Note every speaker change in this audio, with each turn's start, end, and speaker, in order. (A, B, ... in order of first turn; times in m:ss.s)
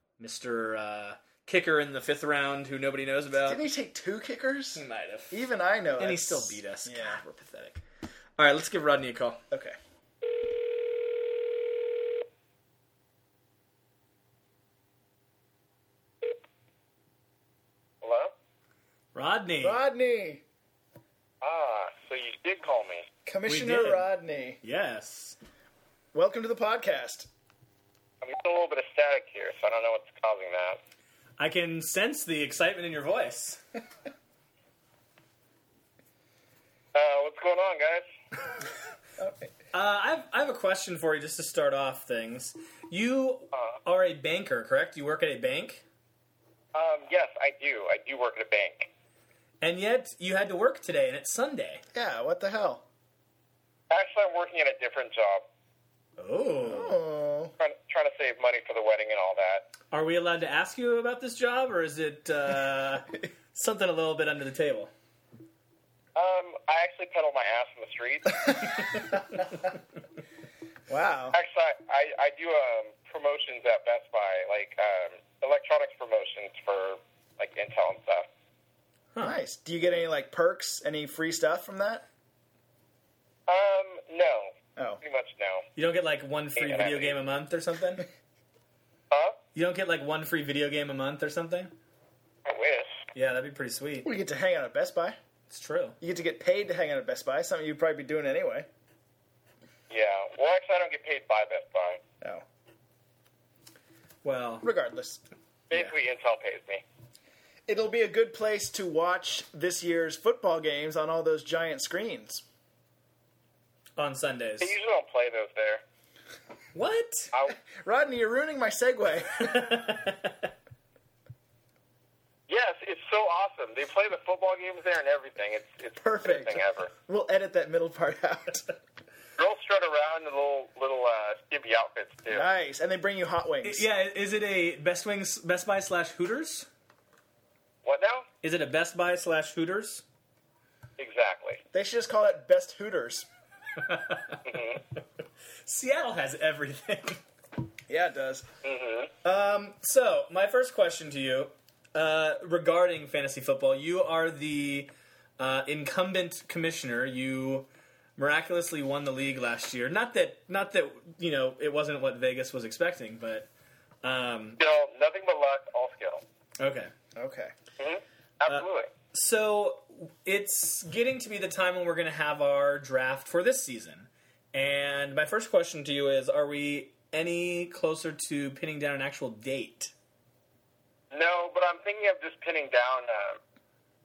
0:00.2-0:03.6 A
0:03.4-0:07.2 B
0:04.7-0:05.4 A
0:06.0-0:07.8 A
0:08.4-0:09.4 A
0:09.5-0:09.8 B
0:18.0-0:18.3 C
0:19.1-0:19.8 A
0:19.6-0:20.4 B
0:21.4-0:23.1 C
0:23.2-0:24.6 B
0:23.5-0:24.1 A
0:24.6-0:25.4 A
0:26.1-0:27.3 B
0:28.2-0:30.8 C
0:31.4-0:33.6 A
0:36.9-0:38.1 C
0:39.2-0:39.5 B
0:39.7-0:45.8 A
0:43.5-0:43.8 C
0:46.7-0:48.9 C
0:49.6-0:51.8 A
0:51.9-0:52.8 B
0:53.9-0:55.4 C
0:56.2-0:57.0 A
0:56.6-0:57.5 B
0:57.6-0:59.7 C
0:59.9-1:04.9 A
1:06.1-1:08.5 C
1:10.9-1:11.4 B
1:11.3-1:18.2 C
1:19.2-1:22.0 B
1:23.5-1:25.6 C
1:24.8-1:25.0 B
1:25.8-1:28.1 A
1:26.6-1:27.1 C
1:29.1-1:29.4 C
1:29.5-1:31.7 A
1:32.4-1:33.0 C
1:33.1-1:34.1 A
1:34.0-1:35.2 B
1:35.5-1:36.0 A
1:36.0-1:38.7 B
1:39.9-1:42.0 C
1:44.2-1:44.7 A
1:44.6-1:45.2 B
1:45.7-1:46.8 C
1:47.7-1:52.4 B
1:54.0-1:54.7 A
1:54.6-1:55.8 C
1:56.7-1:57.3 A
1:57.7-1:59.9 B
1:59.4-2:00.5 A
2:02.5-2:06.9 C
2:06.0-2:08.7 B
2:09.4-2:12.4 C
2:12.3-2:13.8 B
2:13.6-2:16.7 A
2:17.8-2:18.3 C
2:18.4-2:20.0 A
2:21.0-2:21.6 C
2:21.7-2:23.3 B
2:23.8-2:24.6 A
2:24.4-2:24.8 C
2:25.6-2:27.2 A
2:27.9-2:28.5 B
2:28.6-2:29.1 C
2:29.2-2:43.5 A
2:44.0-2:44.6 A
2:44.6-2:46.2 C
2:46.6-2:46.9 A
2:47.2-2:47.5 B
2:47.8-2:48.9 C
2:48.5-2:59.9 A
3:01.1-3:03.4 C